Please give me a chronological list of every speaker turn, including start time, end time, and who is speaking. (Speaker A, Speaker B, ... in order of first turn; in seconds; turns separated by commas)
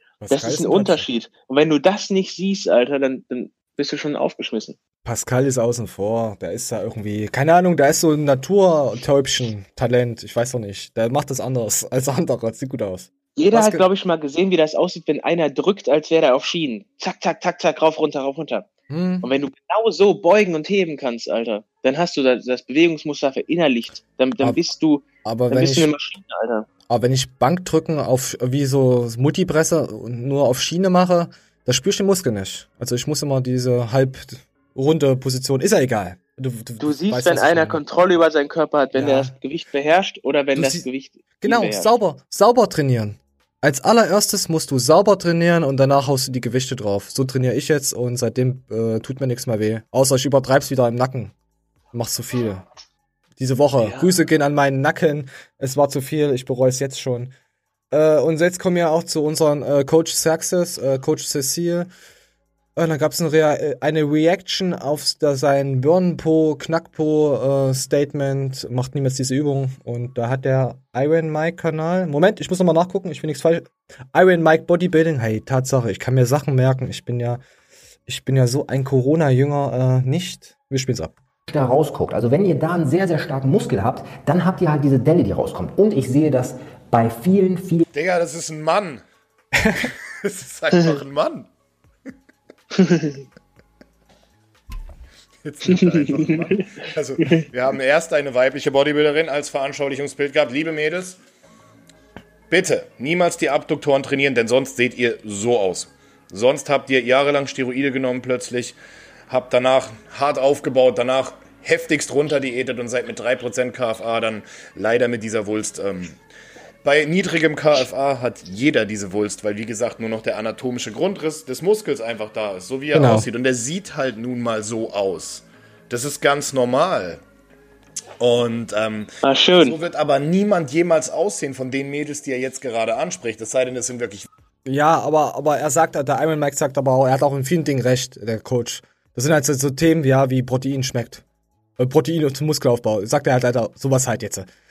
Speaker A: 0.2-1.1, Speaker B: 0.3-4.8, Speaker A: 5.0-13.9, Speaker B: 13.4-18.7, Speaker A: 18.9-19.3, Speaker B: 19.2-26.7, Speaker A: 25.2-25.9, Speaker A: 26.9-37.8, Speaker B: 36.8-41.9, Speaker A: 39.0-39.3, Speaker A: 40.5-40.9, Speaker A: 41.4-51.3, Speaker A: 51.9-52.7, Speaker A: 53.4-57.3, Speaker B: 53.8-54.2, Speaker A: 57.9-61.9, Speaker A: 62.8-77.4, Speaker A: 78.1-81.2, Speaker C: 81.5-87.8, Speaker D: 87.9-89.0, Speaker D: 90.2-91.5, Speaker B: 92.8-93.2, Speaker D: 95.5-101.2, Speaker B: 95.7-96.6, Speaker D: 102.5-108.8, Speaker D: 109.3-116.2, Speaker D: 116.8-127.2, Speaker A: 122.9-123.3, Speaker D: 128.2-129.1, Speaker B: 129.2-129.8, Speaker D: 129.6-134.3, Speaker A: 134.7-141.2, Speaker A: 141.8-144.5